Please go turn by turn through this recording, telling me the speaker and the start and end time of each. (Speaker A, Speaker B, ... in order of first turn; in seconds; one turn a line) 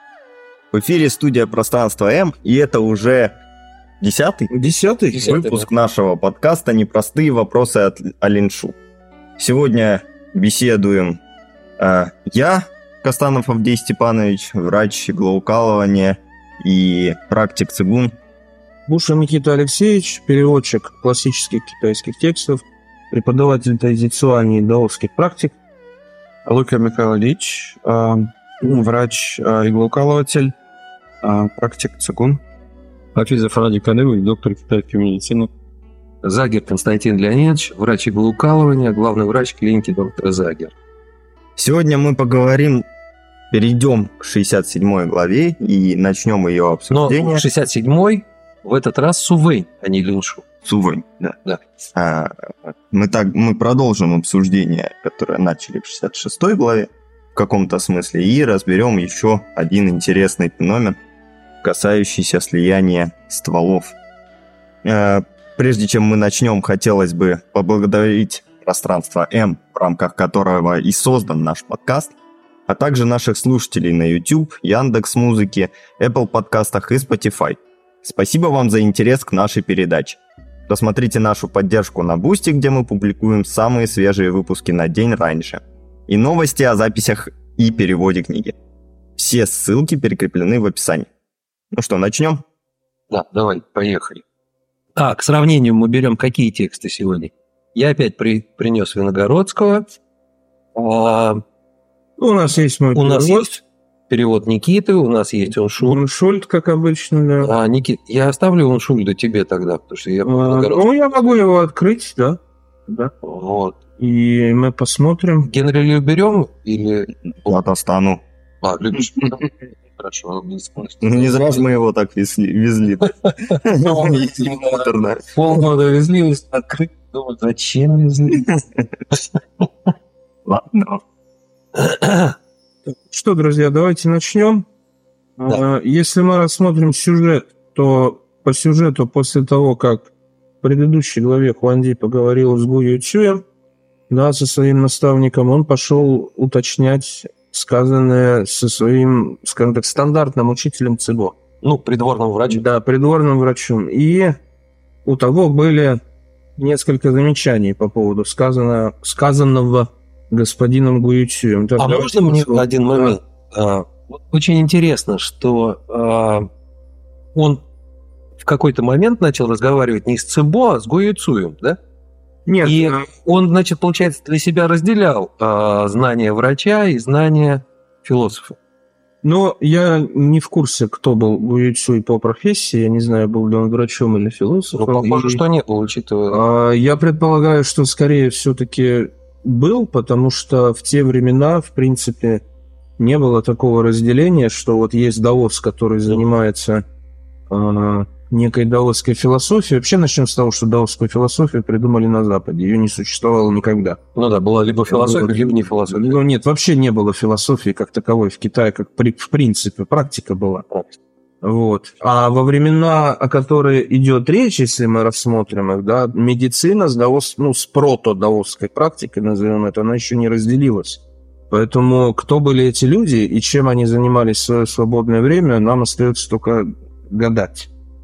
Speaker A: 0.7-3.3
Speaker A: 4.0-4.5
Speaker B: 4.5-5.4
Speaker A: 5.2-8.8
Speaker C: 5.2-5.6
Speaker A: 9.4-11.2
Speaker A: 11.8-18.1
Speaker B: 18.9-25.6
Speaker D: 26.4-30.5
Speaker D: 31.2-32.4
Speaker E: 33.1-35.5
Speaker C: 36.2-40.7
Speaker A: 41.6-42.9
Speaker A: 43.5-47.4
Speaker C: 46.9-50.4
Speaker A: 50.6-51.4
Speaker A: 51.9-61.0
Speaker A: 61.6-63.9
Speaker A: 64.8-72.1
Speaker A: 72.7-88.5
Speaker A: 89.2-91.1
Speaker A: 91.7-92.4
Speaker C: 93.1-94.2
Speaker C: 95.0-100.0
Speaker C: 100.7-101.4
Speaker B: 102.2-103.5
Speaker C: 102.9-106.0
Speaker B: 105.8-107.5
Speaker C: 107.4-111.2
Speaker B: 110.2-113.1
Speaker C: 113.2-113.8
Speaker B: 114.0-115.5
Speaker C: 115.5-117.1
Speaker A: 117.4-118.2
Speaker C: 118.6-121.7
Speaker A: 121.0-125.3
Speaker C: 124.0-124.6
Speaker C: 125.4-128.5
Speaker A: 130.4-131.0
Speaker C: 131.7-132.3
Speaker B: 133.1-134.7
Speaker B: 135.4-140.1
Speaker B: 140.6-143.4
Speaker B: 144.1-151.3
Speaker C: 151.6-152.6
Speaker B: 152.5-154.4
Speaker B: 155.0-156.0
Speaker B: 156.6-163.2
Speaker C: 161.8-166.5
Speaker C: 167.3-167.6
Speaker C: 168.4-171.8
Speaker B: 172.5-173.0
Speaker C: 172.6-178.6
Speaker B: 179.2-185.4
Speaker C: 184.8-186.4
Speaker B: 186.3-192.4
Speaker B: 193.0-196.8
Speaker B: 197.5-204.0
Speaker C: 204.1-206.2
Speaker B: 204.9-210.7
Speaker B: 211.4-227.7